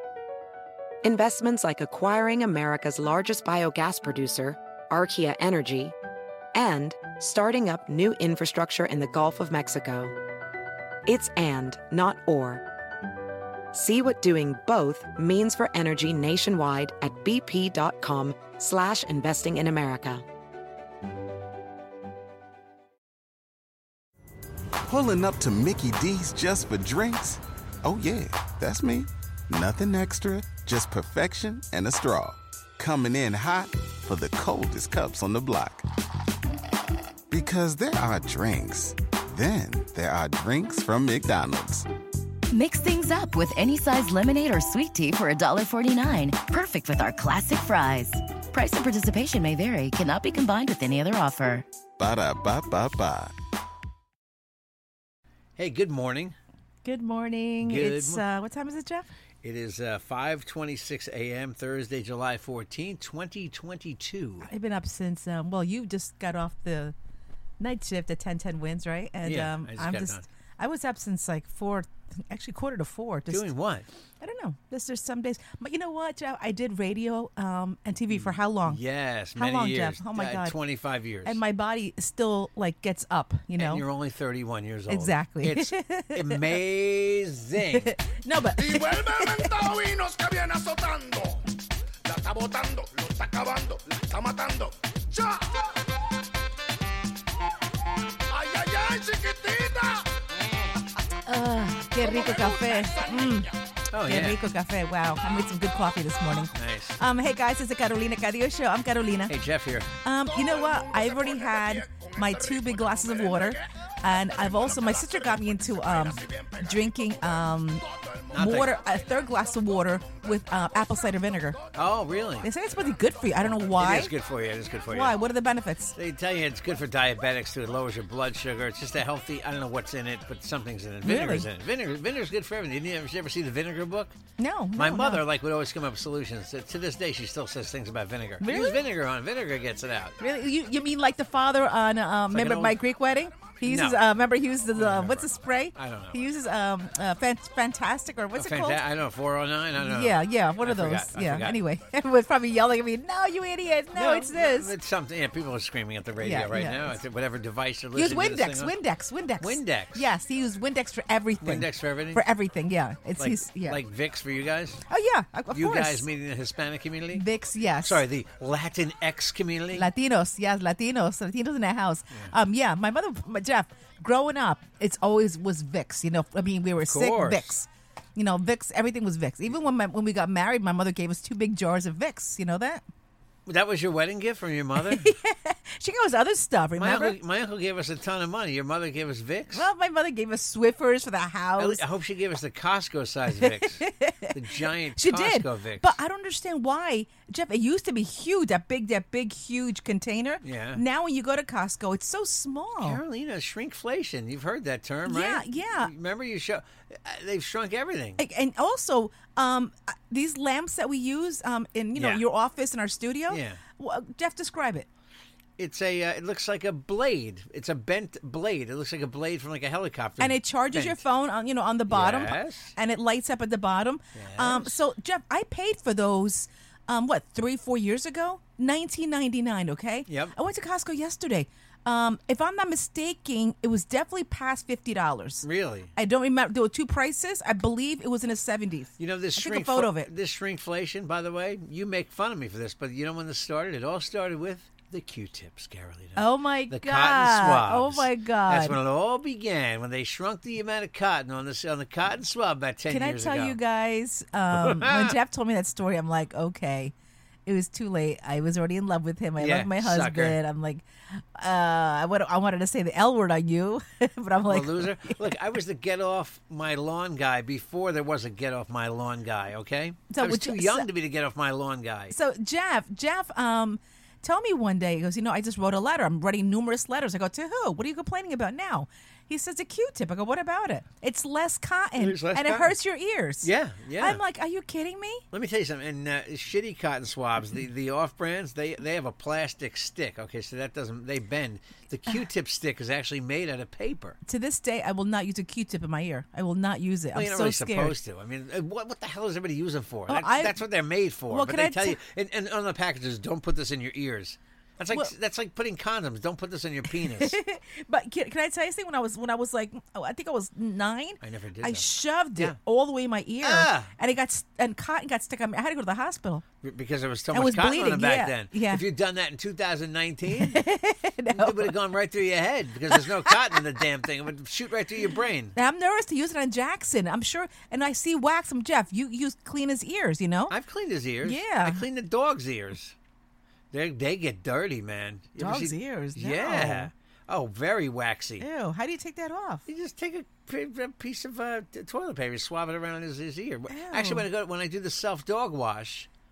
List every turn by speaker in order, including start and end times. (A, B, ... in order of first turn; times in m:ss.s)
0:01.0-0:06.0 A
0:06.5-0:10.1 A
0:11.1-0:12.6 A
0:13.7-0:20.2 A
0:24.9-0:35.8 B
0:37.3-0:41.9 B
0:42.5-0:51.7 C
0:52.0-0:53.3 B
0:55.6-0:56.4 D
0:56.8-0:59.1 E
0:57.6-0:58.2 D
0:59.4-1:04.5 D
1:04.4-1:07.0 E
1:07.6-1:13.5 E
1:09.2-1:10.3 D
1:13.3-1:13.9 D
1:14.2-1:18.8 E
1:18.1-1:21.4 D
1:19.4-1:20.6 E
1:21.2-1:23.8 E
1:23.6-1:27.9 D
1:24.9-1:26.5 E
1:27.7-1:29.5 E
1:28.6-1:31.4 F
1:32.1-1:35.8 F
1:38.3-1:40.2 F
1:40.4-1:40.8 D
1:41.3-1:43.5 E
1:42.0-1:43.6 F
1:43.9-1:44.4 D
1:44.0-1:49.4 E
1:46.5-1:47.0 D
1:49.3-1:49.9 D
1:50.0-2:01.6 E
1:50.3-2:01.4 F
1:58.3-1:58.8 D
2:01.8-2:02.5 D
2:02.4-2:04.1 E
2:02.7-2:03.5 F
2:03.5-2:05.2 D
2:04.9-2:06.0 E
2:06.0-2:14.2 D
2:11.0-2:11.5 E
2:14.4-2:15.2 E
2:14.8-2:20.2 D
2:18.4-2:18.8 E
2:20.2-2:28.8 E
2:22.3-2:22.8 D
2:23.6-2:24.1 D
2:24.8-2:26.2 D
2:28.4-2:31.6 D
2:29.8-2:34.7 E
2:33.9-2:38.7 D
2:36.2-2:37.0 E
2:38.0-2:43.8 E
2:39.4-2:40.1 D
2:41.4-2:42.2 D
2:43.2-2:44.8 D
2:44.9-2:46.1 E
2:45.5-2:47.2 D
2:47.1-2:48.0 E
2:47.8-2:49.9 D
2:49.7-3:02.8 E
2:56.8-2:57.5 D
3:03.5-3:05.1 D
3:04.8-3:07.2 E
3:06.8-3:09.7 D
3:09.5-3:11.8 E
3:11.6-3:15.9 D
3:13.4-3:14.4 E
3:15.0-3:23.0 E
3:20.4-3:20.8 D
3:22.8-3:28.2 D
3:25.1-3:25.9 E
3:28.2-3:34.9 E
3:32.0-3:32.2 D
3:33.3-3:33.6 D
3:35.6-3:41.0 D
3:40.2-4:00.1 E
3:41.9-3:42.7 D
3:44.2-3:44.7 D
3:50.1-3:50.4 D
3:55.4-3:55.9 D
3:59.0-4:13.6 D
4:06.2-4:08.8 E
4:12.9-4:16.9 E
4:14.5-4:15.2 D
4:17.5-4:25.3 E
4:19.4-4:20.4 D
4:24.5-4:32.2 D
4:30.1-4:30.9 E
4:32.1-4:45.2 E
4:42.0-4:42.7 D
4:43.4-4:44.2 D
4:45.3-4:54.2 D
4:54.3-4:58.0 E
4:57.1-5:07.4 D
5:00.1-5:00.6 E
5:01.3-5:02.0 E
5:06.9-5:16.4 E
5:11.2-5:12.6 D
5:13.4-5:13.9 D
5:16.6-5:20.6 D
5:17.3-5:18.8 E
5:20.3-5:21.7 E
5:21.4-5:25.6 D
5:22.9-5:23.6 E
5:25.6-5:30.5 E
5:30.5-5:33.0 D
5:31.2-5:31.8 E
5:33.7-5:38.5 D
5:35.4-5:36.9 E
5:38.4-5:39.6 E
5:39.7-5:46.1 D
5:43.7-5:44.2 E